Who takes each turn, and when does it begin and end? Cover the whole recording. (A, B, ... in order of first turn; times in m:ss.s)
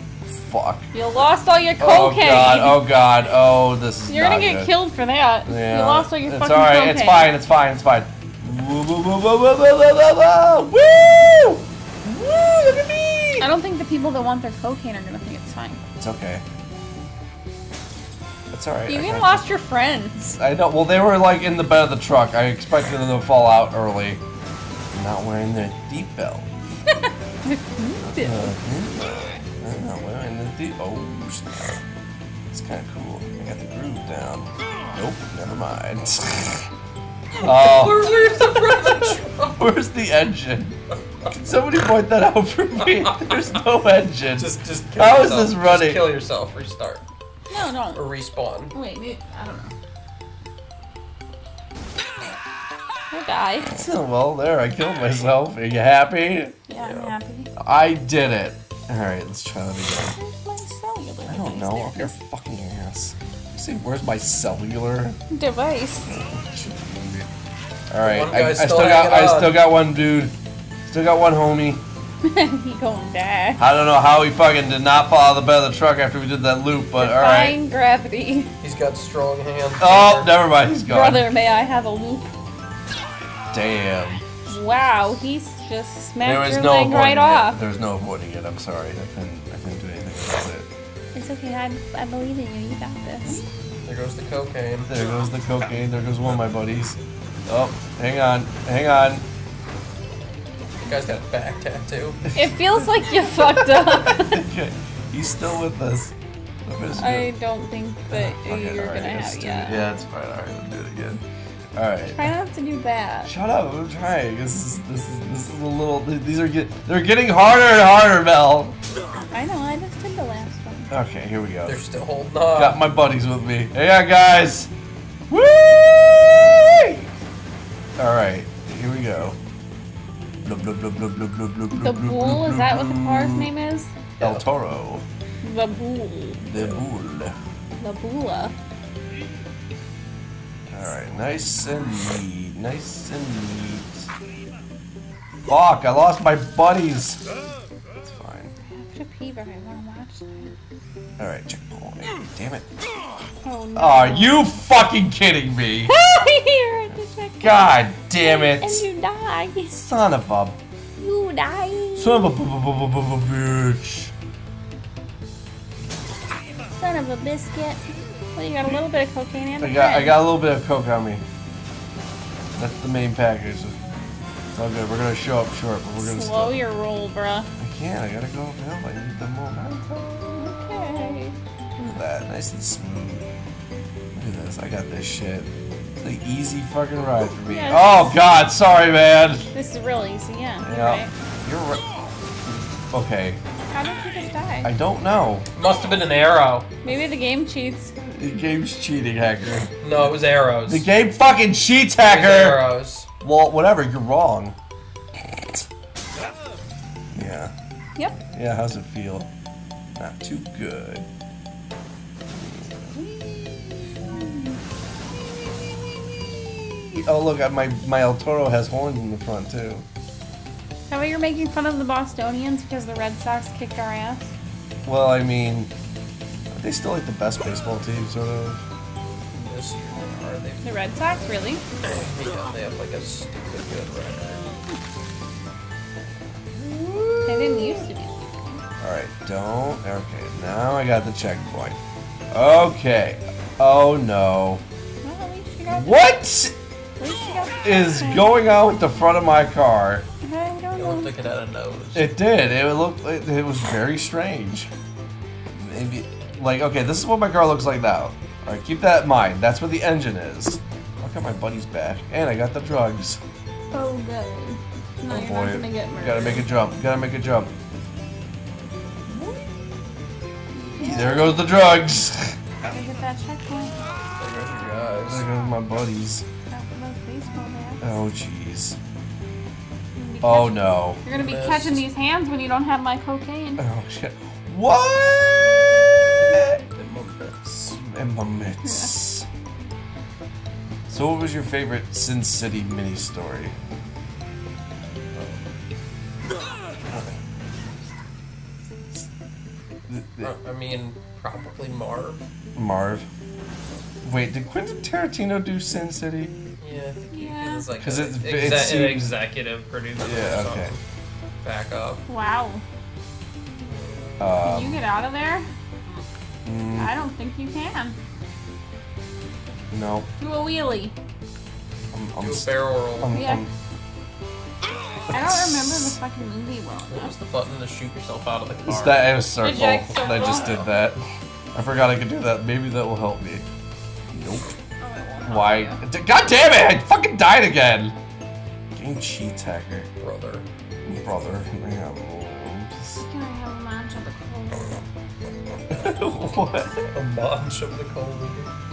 0:00.3-0:00.9 A
0:00.9-0:02.8 B
0:01.8-0:04.8 A
0:04.0-0:07.3 B
0:05.4-0:13.5 A
0:13.4-0:15.8 B
0:16.0-0:16.4 A
0:18.5-0:19.4 A
0:18.9-0:20.2 B
0:20.2-0:24.2 A
0:24.9-0:26.5 A
0:27.0-0:28.6 B
0:28.0-0:31.7 A
0:32.5-0:36.7 A
0:37.4-0:39.6 C
0:37.4-0:38.1 A
0:38.9-0:40.8 A
0:41.3-0:46.1 A
0:42.8-0:43.4 C
0:44.3-0:47.0 C
0:47.5-0:48.0 B
0:48.0-0:48.8 C
0:48.7-0:49.7 B
0:53.1-0:53.7 B
0:53.7-0:56.6 A
0:56.7-0:57.5 B
0:56.8-0:57.1 C
0:57.6-1:00.2 A
1:00.0-1:02.2 B
1:01.3-1:05.2 A
1:05.3-1:06.1 B
1:06.1-1:07.3 A
1:07.9-1:10.3 A
1:08.0-1:09.6 C
1:10.9-1:11.8 A
1:12.2-1:13.6 B
1:13.6-1:17.6 A
1:17.0-1:18.5 B
1:18.6-1:20.3 C
1:19.8-1:21.2 A
1:20.7-1:22.3 B
1:23.5-1:24.2 A
1:24.5-1:27.6 B
1:26.2-1:30.7 A
1:31.1-1:33.4 B
1:33.9-1:34.9 C
1:34.9-1:39.2 A
1:40.8-1:42.2 C
1:42.3-1:44.4 B
1:43.8-1:46.1 A
1:46.6-1:47.3 A
1:47.0-1:49.8 B
1:48.1-1:51.2 A
1:51.8-1:52.3 A
1:52.1-1:53.3 B
1:53.3-1:58.8 A
1:59.3-2:00.9 B
2:00.9-2:01.8 A
2:01.7-2:02.8 C
2:02.6-2:04.7 A
2:05.3-2:07.1 A
2:08.0-2:09.4 A
2:10.4-2:13.5 A
2:11.7-2:14.0 B
2:14.2-2:15.0 A
2:15.4-2:16.7 B
2:16.4-2:17.4 A
2:17.8-2:18.6 B
2:20.7-2:24.1 A
2:25.5-2:27.2 A
2:28.0-2:28.5 A
2:28.7-2:30.5 B
2:31.2-2:32.7 A
2:33.4-2:34.5 B
2:33.8-2:35.9 A
2:35.9-2:37.6 B
2:37.4-2:38.9 A
2:38.2-2:39.7 B
2:39.7-2:40.6 A
2:41.0-2:42.2 B
2:42.0-2:44.1 A
2:46.7-2:50.2 B
2:49.6-2:51.2 A
2:52.6-2:53.8 A
2:54.5-2:56.6 A
2:56.0-2:57.5 B
2:57.6-3:00.6 A
3:00.3-3:02.0 B
3:01.8-3:03.3 A
3:04.2-3:09.5 A
3:07.5-3:08.1 B
3:09.5-3:11.1 B
3:10.6-3:11.9 A
3:12.5-3:13.4 A
3:13.7-3:14.7 B
3:14.6-3:15.5 A
3:15.6-3:16.7 C
3:16.8-3:17.9 B
3:18.1-3:19.7 A
3:19.8-3:20.8 C
3:20.7-3:22.6 A
3:22.0-3:23.1 C
3:23.2-3:24.6 A
3:25.3-3:25.6 A
3:27.1-3:27.5 A
3:28.3-3:29.3 A
3:30.0-3:31.1 A
3:32.4-3:34.6 A
3:36.3-3:39.9 A
3:40.9-3:44.3 B
3:44.8-3:45.7 A
3:46.5-3:48.6 A
3:49.3-3:50.6 C
3:50.6-3:51.6 B
3:51.8-3:54.4 C
3:56.6-3:57.9 A
3:57.3-3:58.2 B
3:58.8-4:01.8 A
4:02.3-4:04.6 A
4:05.0-4:06.0 B
4:05.7-4:06.6 A
4:07.0-4:08.3 B
4:07.6-4:10.1 A
4:10.2-4:11.1 B
4:10.8-4:12.1 C
4:11.9-4:14.7 A
4:15.6-4:23.2 A
4:23.7-4:26.5 B
4:25.1-4:27.5 A
4:30.5-4:31.5 B
4:30.8-4:32.4 A
4:32.7-4:33.8 B
4:34.2-4:35.2 C
4:35.0-4:36.2 A
4:36.5-4:38.0 B
4:37.8-4:38.8 A
4:40.0-4:43.6 B
4:40.2-4:41.0 A
4:41.1-4:41.9 C
4:43.6-4:46.6 A
4:46.8-4:47.7 C
4:47.7-4:49.3 A
4:48.6-4:48.9 B
4:50.9-4:53.6 A
4:55.2-4:55.4 C
4:56.9-4:57.2 A
4:59.9-5:00.3 A
5:00.2-5:02.2 C
5:02.6-5:03.1 A
5:04.0-5:06.4 A
5:06.6-5:10.8 C
5:07.1-5:07.7 B
5:07.8-5:09.2 A
5:10.0-5:10.8 A
5:11.4-5:12.0 C
5:12.1-5:12.6 B
5:13.6-5:14.2 C
5:14.2-5:14.8 A
5:14.4-5:15.5 B
5:16.4-5:16.9 A
5:16.8-5:18.0 B
5:19.7-5:20.1 A
5:20.2-5:20.9 B
5:21.9-5:23.5 A
5:22.2-5:23.2 C
5:23.1-5:23.4 B
5:25.1-5:26.0 A
5:25.1-5:27.2 B
5:26.9-5:29.1 C
5:28.7-5:31.0 A
5:29.4-5:30.6 B
5:31.5-5:33.5 A
5:34.1-5:34.5 A
5:34.8-5:35.8 B
5:35.2-5:38.0 A
5:38.7-5:39.9 A
5:40.0-5:40.5 C
5:40.8-5:43.0 A
5:43.0-5:44.8 B
5:45.7-5:46.8 A
5:46.8-5:48.5 C